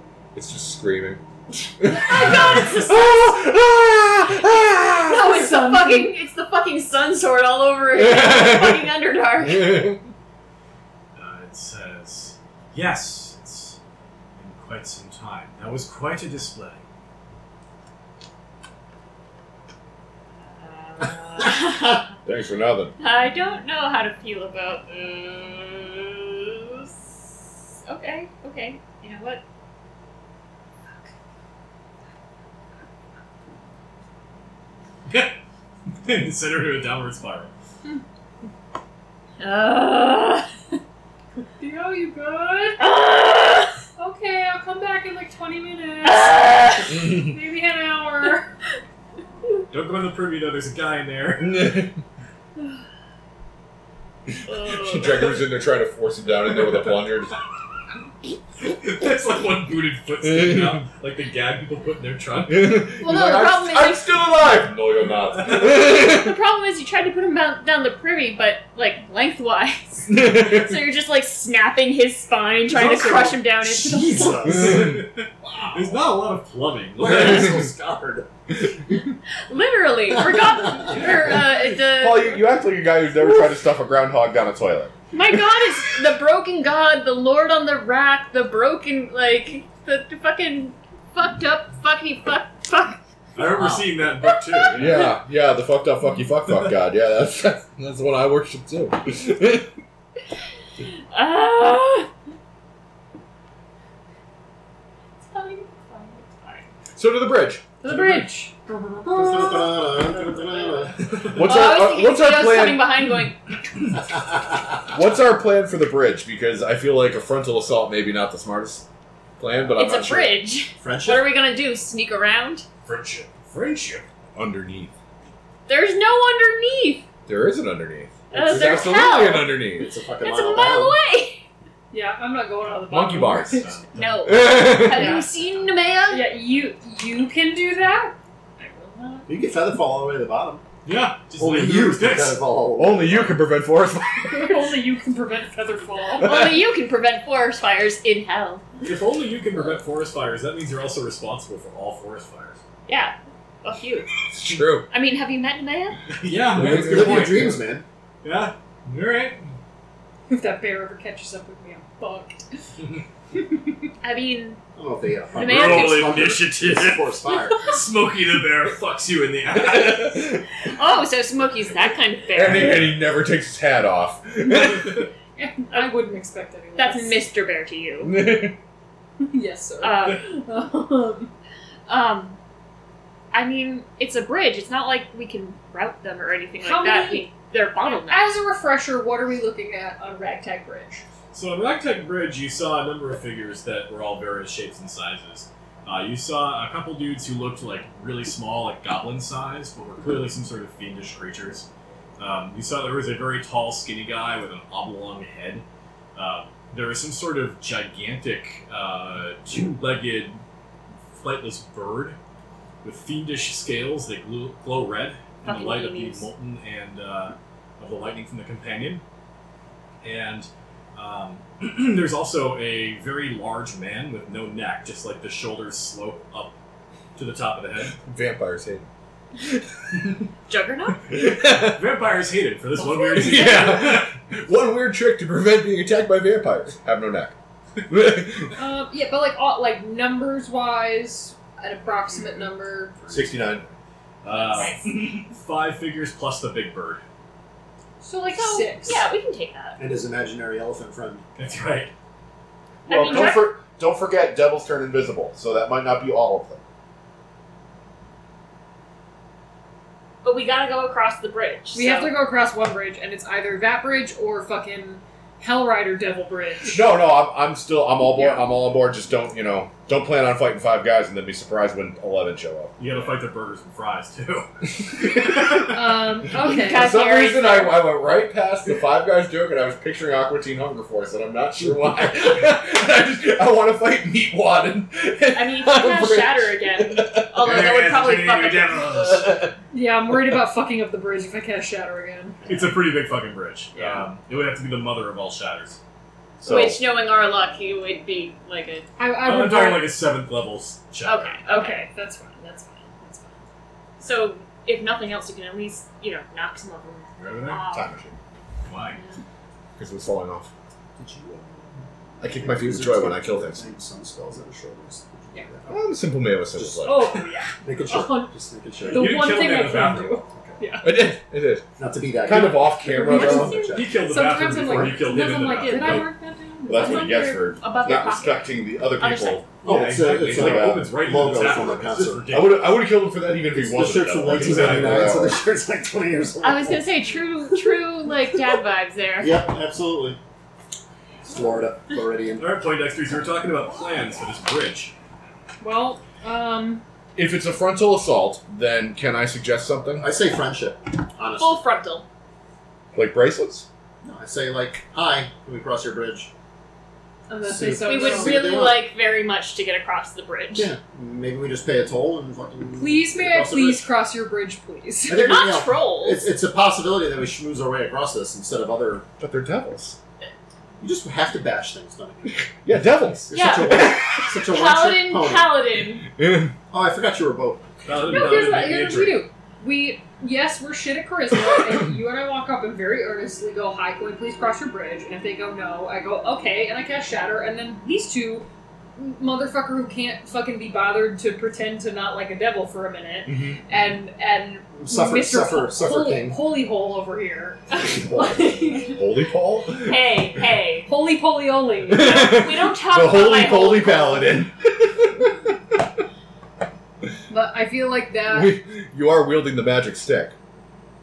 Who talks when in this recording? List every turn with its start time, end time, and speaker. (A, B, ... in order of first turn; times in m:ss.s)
0:00.3-0:01.2 A
0:01.8-0:05.4 A
0:01.9-0:03.1 B
0:01.9-0:03.3 C
0:05.0-0:09.9 C
0:05.1-0:06.1 B
0:08.0-0:08.9 A
0:09.4-0:10.0 A
0:11.2-0:13.8 D
0:14.4-0:16.8 D
0:20.5-0:22.2 C
0:22.2-0:22.9 A
0:23.0-0:27.2 C
0:27.8-0:29.4 C
0:35.1-0:35.4 D
0:36.0-0:37.5 D
0:39.4-0:40.5 C
0:41.6-0:42.8 B
0:42.8-0:43.7 C
0:44.0-0:48.5 B
0:46.0-0:47.0 C
0:46.9-0:47.4 A
0:49.7-0:51.8 D
0:51.4-0:52.0 A
0:54.3-0:57.4 A
0:54.5-0:55.4 C
0:58.6-1:02.8 D
1:00.3-1:00.8 A
1:02.5-1:06.4 A
1:03.0-1:04.3 C
1:05.4-1:14.7 C
1:10.1-1:10.8 A
1:13.8-1:15.0 E
1:14.4-1:17.6 D
1:14.5-1:15.0 A
1:17.0-1:18.3 E
1:19.3-1:22.5 C
1:21.3-1:24.9 A
1:25.1-1:33.0 C
1:33.4-1:35.1 D
1:34.2-1:35.1 C
1:34.7-1:39.7 A
1:41.1-1:42.1 C
1:45.3-1:46.7 C
1:47.0-1:47.7 A
1:47.8-1:49.6 B
1:47.9-1:48.3 D
1:49.0-1:51.3 E
1:50.2-1:53.4 C
1:51.2-1:53.0 A
1:54.9-1:58.8 A
1:59.4-2:00.4 A
1:59.8-2:02.7 C
2:00.8-2:01.3 E
2:02.9-2:04.0 D
2:04.4-2:04.9 A
2:05.7-2:07.1 C
2:07.3-2:09.9 A
2:08.3-2:09.6 C
2:08.3-2:08.9 E
2:09.8-2:11.0 E
2:10.2-2:11.4 C
2:11.9-2:13.8 B
2:12.9-2:13.7 A
2:13.3-2:14.4 D
2:14.0-2:16.3 C
2:14.2-2:15.2 A
2:14.7-2:15.3 B
2:16.1-2:19.3 B
2:19.3-2:20.6 E
2:20.8-2:22.4 D
2:21.4-2:23.4 E
2:22.8-2:24.6 A
2:24.3-2:26.4 B
2:26.2-2:28.7 C
2:28.8-2:32.6 D
2:32.9-2:34.1 C
2:34.3-2:34.9 A
2:34.9-2:36.0 C
2:36.2-2:37.6 D
2:36.6-2:37.6 A
2:36.6-2:37.8 E
2:38.2-2:39.4 D
2:40.3-2:42.4 B
2:44.0-2:44.6 C
2:44.8-2:47.6 E
2:45.3-2:46.3 C
2:45.4-2:50.3 D
2:49.6-2:50.4 A
2:50.6-2:52.9 C
2:52.3-2:55.1 A
2:55.4-2:57.2 B
2:56.8-2:58.2 C
2:58.0-2:58.6 A
2:59.2-3:01.3 B
2:59.8-3:00.3 C
3:01.9-3:02.4 C
3:03.3-3:08.4 C
3:06.6-3:11.0 B
3:11.3-3:21.7 D
3:22.2-3:30.4 D
3:31.2-3:32.2 D
3:32.8-3:39.0 D
3:35.4-3:36.3 C
3:40.0-3:46.6 D
3:47.2-3:48.0 D
3:48.0-3:48.9 A
3:50.5-3:51.0 C
3:51.1-3:51.8 A
3:51.5-3:54.0 D
3:52.8-3:53.7 C
3:53.2-3:57.3 A
3:57.9-3:58.6 A
3:58.6-4:03.1 B
4:03.1-4:03.7 A
4:04.2-4:07.0 D
4:04.3-4:04.9 C
4:04.3-4:04.7 B
4:08.0-4:09.1 B
4:08.3-4:09.8 C
4:09.8-4:11.2 E
4:11.4-4:11.9 D
4:12.9-4:13.5 C
4:12.9-4:16.6 A
4:20.2-4:22.2 C
4:21.7-4:26.9 B
4:26.7-4:32.7 A
4:28.2-4:28.4 B
4:32.8-4:34.5 D
4:35.6-4:36.9 B
4:36.3-4:37.8 C
4:36.7-4:47.3 A
4:45.3-4:48.9 C
4:47.4-4:49.4 D
4:49.0-4:49.5 A
4:49.7-4:52.5 B
4:52.4-4:52.7 E
4:52.5-4:55.8 D
4:53.8-4:54.1 B
4:56.4-4:56.8 A
4:56.4-4:58.9 C
4:59.0-5:00.0 B
4:59.2-5:01.4 D
5:01.0-5:01.9 C
5:01.4-5:03.4 B
5:04.0-5:08.0 C
5:07.2-5:08.2 A
5:08.7-5:09.0 D
5:09.8-5:10.5 A
5:11.0-5:15.9 E
5:12.2-5:13.6 A
5:15.7-5:17.1 A
5:16.5-5:17.1 E
5:16.8-5:21.1 B
5:17.6-5:19.4 E
5:18.9-5:20.2 D
5:20.3-5:20.6 E
5:20.8-5:21.7 A
5:21.8-5:24.0 E
5:22.2-5:23.6 A
5:22.3-5:27.3 B
5:23.6-5:26.1 D
5:24.6-5:25.2 E
5:26.7-5:31.5 A
5:26.7-5:29.5 C
5:29.6-5:32.4 E
5:29.6-5:32.9 D
5:32.3-5:35.4 A
5:33.5-5:36.8 E
5:34.2-5:35.1 D
5:36.4-5:39.5 C
5:39.2-5:40.2 E
5:41.2-5:42.5 E
5:42.4-5:44.9 D
5:45.6-5:46.8 B
5:47.2-5:50.1 A
5:50.0-5:51.6 E
5:51.4-5:52.0 C
5:52.9-5:53.7 A
5:54.0-5:56.3 E
5:57.3-5:58.6 B
5:57.4-5:58.8 E
5:57.8-6:00.7 C
6:00.5-6:03.9 E
6:02.8-6:05.5 B
6:05.0-6:09.1 E
6:05.2-6:06.3 C
6:09.2-6:10.0 A
6:10.8-6:15.6 E
6:12.5-6:13.3 A
6:13.3-6:16.1 C
6:16.2-6:16.5 A
6:16.7-6:17.6 E
6:17.9-6:19.3 D
6:17.9-6:39.1 B
6:33.3-6:33.6 A
6:34.8-6:36.4 E
6:38.0-6:38.6 E
6:38.9-6:40.0 A
6:39.8-6:40.9 C
6:40.9-6:42.4 B
6:41.9-6:45.4 A
6:41.9-6:44.3 C
6:47.3-6:48.6 B
6:48.3-6:50.4 A